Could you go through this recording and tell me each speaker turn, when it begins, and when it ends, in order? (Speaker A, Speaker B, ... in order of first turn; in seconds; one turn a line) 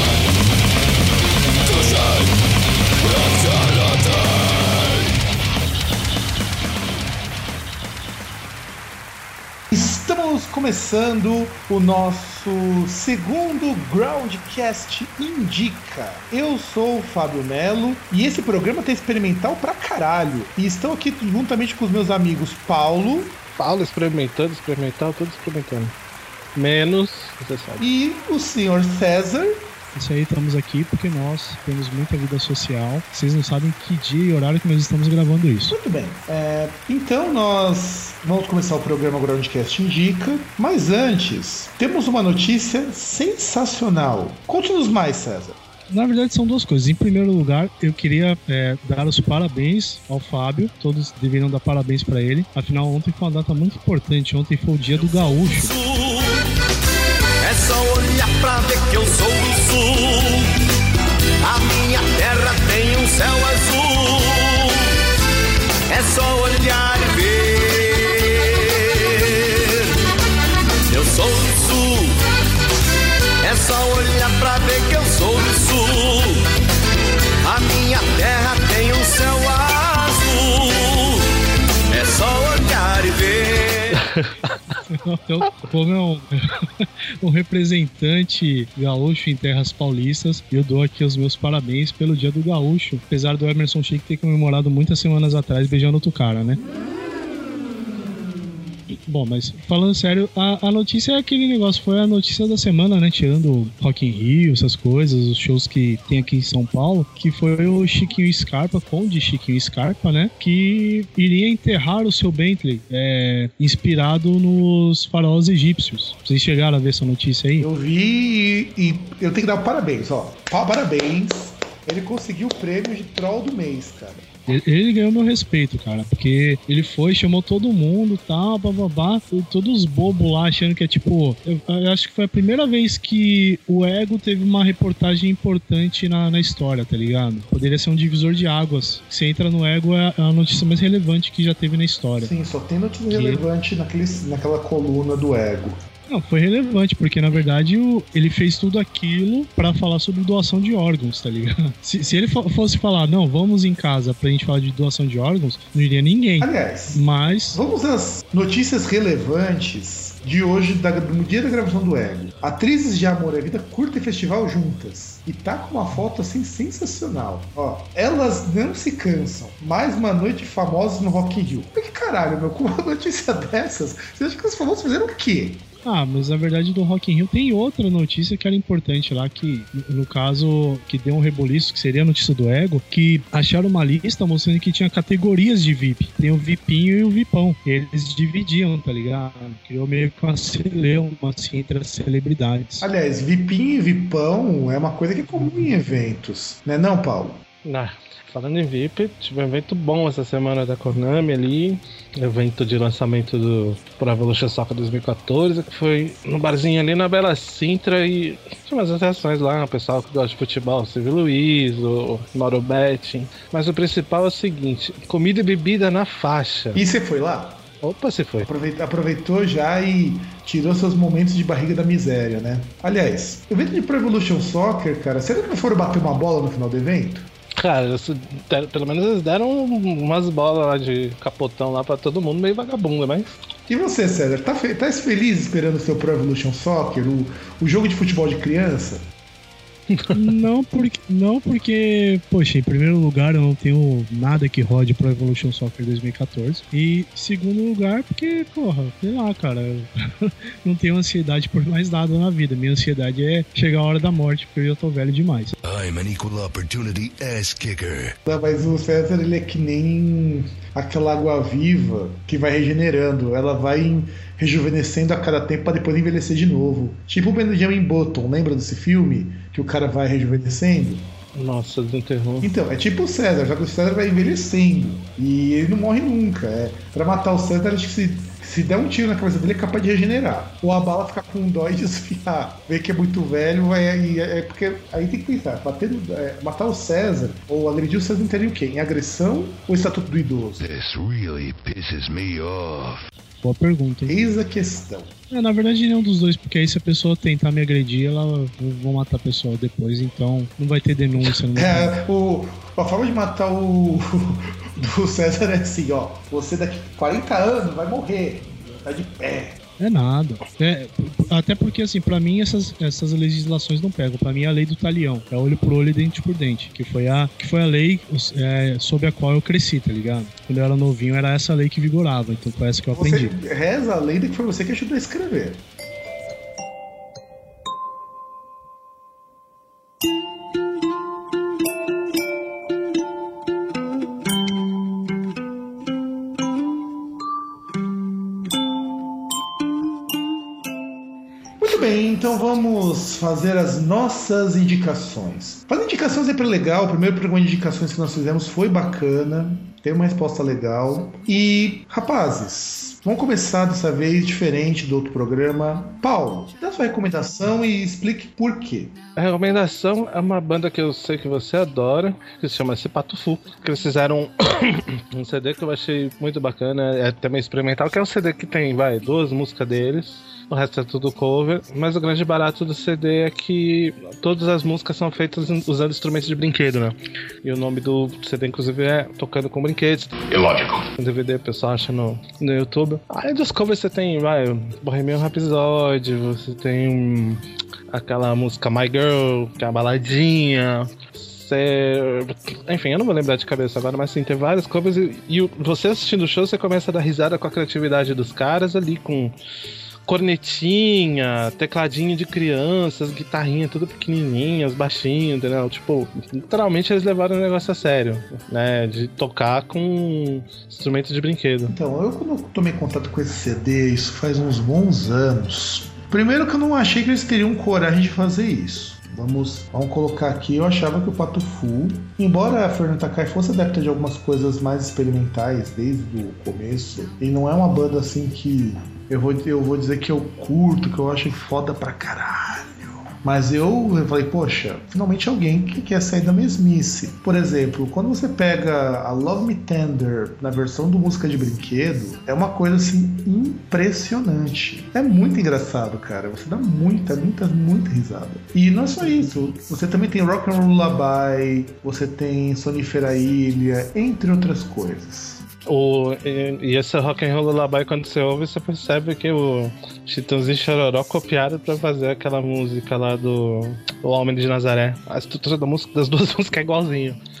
Speaker A: 9.7-23.4
Speaker B: 23.6-25.9
Speaker B: 26.5-27.8
Speaker A: 27.8-29.6
Speaker C: 29.9-35.8
Speaker A: 35.7-45.6
Speaker C: 45.9-55.7
Speaker D: 55.1-56.4
Speaker D: 57.4-60.5
Speaker D: 61.4-64.9
Speaker D: 65.9-69.9
Speaker D: 70.9-72.2
Speaker D: 73.4-76.4
Speaker D: 77.4-81.2
Speaker D: 81.9-84.0
Speaker B: 84.2-84.5
Speaker C: 84.9-96.6
Speaker C: 99.1-117.7
Speaker A: 117.6-124.3
Speaker C: 124.5-142.3
Speaker A: 142.2-145.8
Speaker C: 143.1-143.4
Speaker C: 146.1-157.6
Speaker A: 156.4-175.7
Speaker C: 175.8-192.9
Speaker A: 192.8-197.4
Speaker B: 197.6-216.8
Speaker A: 216.7-217.6
Speaker B: 217.8-218.5
Speaker A: 218.4-227.3
Speaker B: 227.6-233.3
Speaker A: 233.7-239.1
Speaker C: 240.1-255.5
Speaker E: 255.6-258.1
Speaker A: 258.2-271.1
Speaker B: 271.3-272.5
Speaker A: 272.4-290.6
Speaker E: 290.6-293.0
Speaker C: 293.4-294.1
Speaker A: 294.1-295.1
Speaker C: 295.3-301.9
Speaker A: 301.5-309.6
Speaker C: 309.8-323.3
Speaker A: 322.9-325.6
Speaker A: 341.6-358.9
Speaker B: 359.2-380.3
Speaker E: 380.3-380.8
Speaker B: 381.0-399.3
Speaker B: 400.1-411.7
Speaker A: 411.7-455.4
Speaker B: 455.7-467.2